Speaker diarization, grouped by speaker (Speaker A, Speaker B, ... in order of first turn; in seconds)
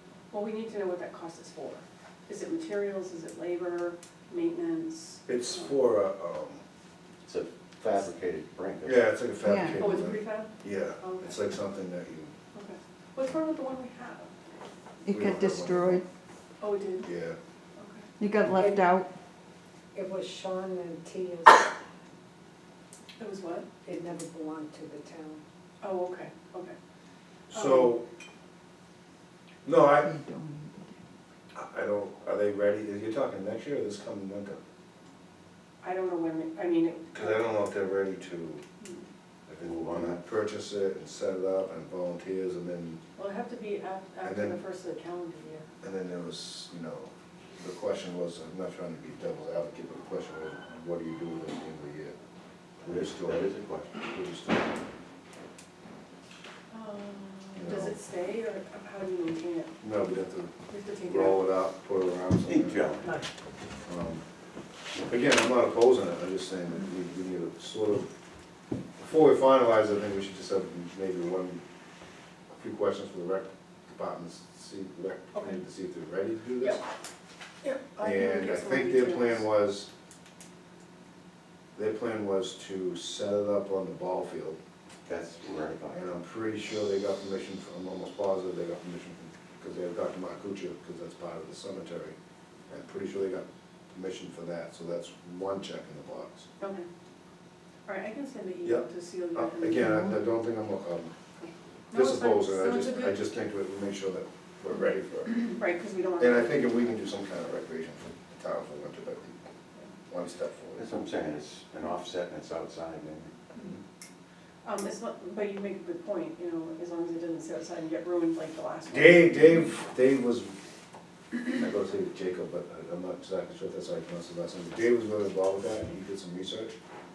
Speaker A: 0.3-5.7, 9.8-11.4, 12.5-14.3, 16.6-17.1, 17.8-18.1, 23.2-23.7, 25.8-26.8, 27.5-27.9, 35.8-37.5, 38.8-39.1, 43.2-45.7, 56.7-59.8, 60.7-61.5, 77.6-79.5, 96.6-96.9, 97.9-100.0, 101.4-103.2, 105.2-106.8, 114.6-119.4
Speaker B: 5.3-6.6, 7.8-8.1, 8.8-12.3, 15.1-16.0, 17.0-17.4, 27.5-28.1, 29.6-30.1, 31.5-34.6, 37.1-38.6, 39.5-43.0, 44.2-44.6, 45.8-52.1, 52.8-54.8, 57.6-58.0, 59.8-60.5, 61.0-63.0, 63.9-64.2, 65.1-68.1, 69.0-71.6, 72.6-76.8, 78.0-79.9, 81.8-84.6, 85.9-92.2, 92.7-96.5, 98.6-101.1, 101.9-105.6, 106.2-109.4, 110.1-110.9, 118.9-120.6, 121.5-126.7
Speaker C: 7.2-9.1, 39.6-40.2, 52.8-54.1, 62.5-63.2, 85.0-86.2, 110.8-113.3
Speaker D: 9.4-9.9, 15.1-16.0, 18.2-19.1, 29.9-31.0
Speaker E: 18.5-19.0, 19.9-21.7, 23.8-25.4